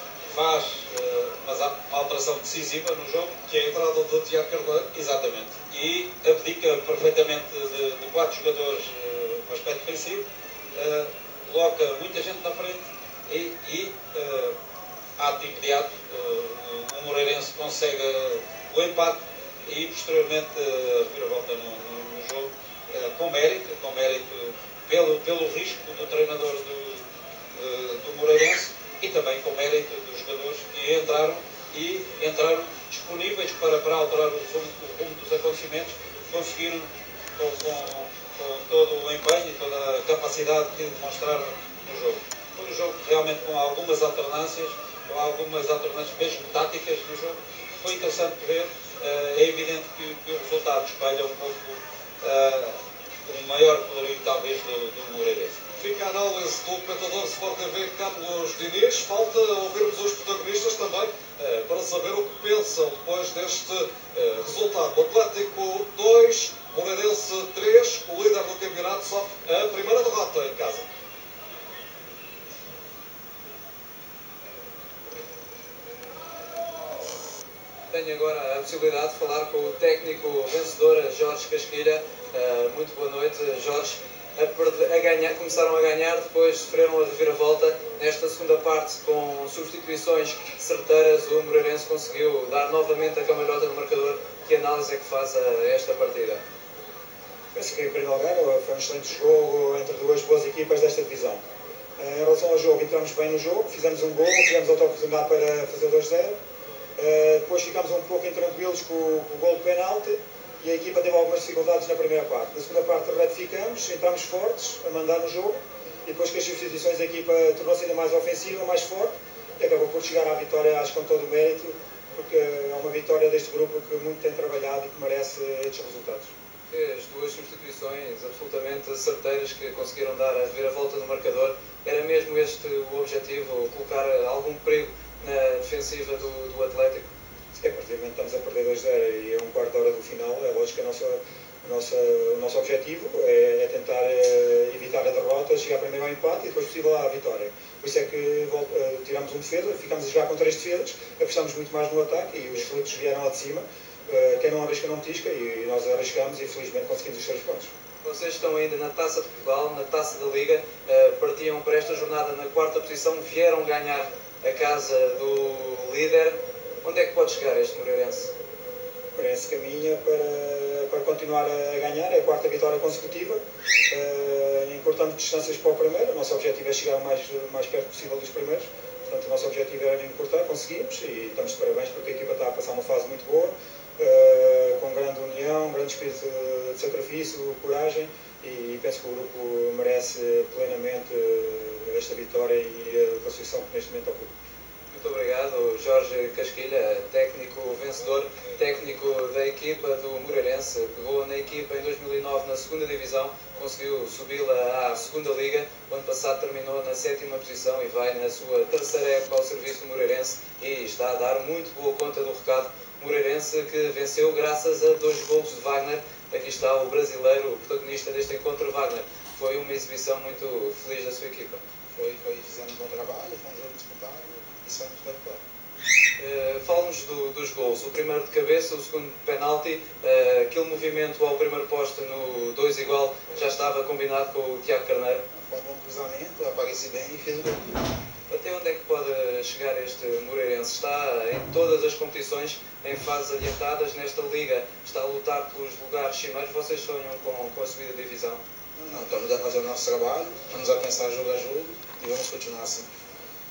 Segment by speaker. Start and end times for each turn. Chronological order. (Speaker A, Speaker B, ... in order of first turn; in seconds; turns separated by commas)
Speaker A: 0.3-14.6, Speaker A: 15.2-55.6, Speaker B: 55.8-70.9, Speaker C: 77.9-96.4, Speaker D: 97.5-101.4, Speaker D: 102.0-106.3, Speaker D: 107.0-126.3, Speaker C: 126.7-137.1, Speaker D: 137.6-157.7, Speaker C: 158.0-168.3, Speaker D: 169.2-194.3, Speaker C: 194.9-221.6, Speaker E: 221.9-225.4, Speaker C: 226.2-235.2, Speaker E: 235.3-237.7, Speaker C: 238.3-248.4, Speaker E: 248.8-252.9